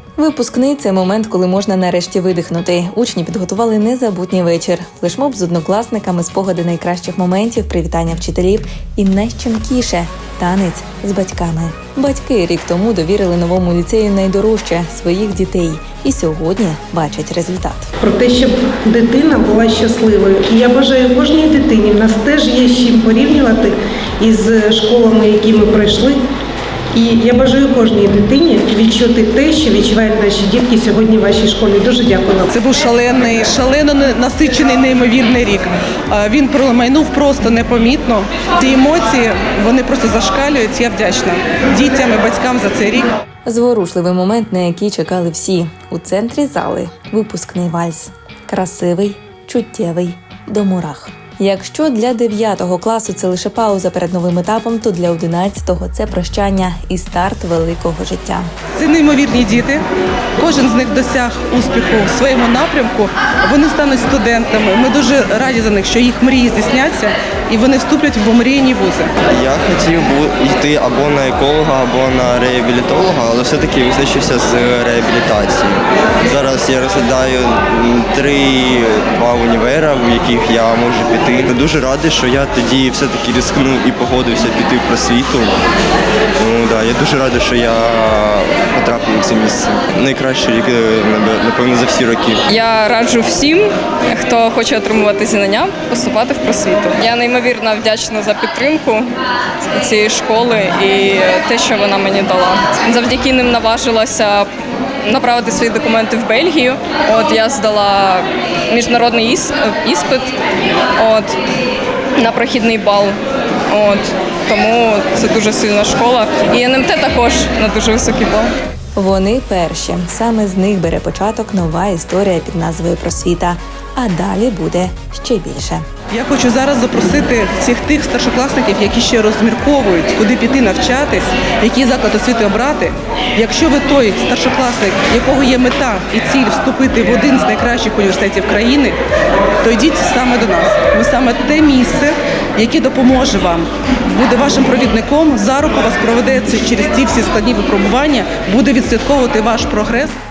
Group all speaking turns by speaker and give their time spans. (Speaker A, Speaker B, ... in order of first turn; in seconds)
Speaker A: 0.2-17.9, 43.5-58.5, 119.0-125.8
Speaker B: 18.0-26.2, 26.9-32.5
Speaker C: 32.5-43.1, 58.8-59.8, 60.4-69.1, 126.1-139.0, 139.6-150.2
Speaker D: 69.3-85.6, 86.4-92.4
Speaker E: 92.5-104.5, 105.1-110.3, 111.0-111.4, 112.2-113.2, 113.7-118.5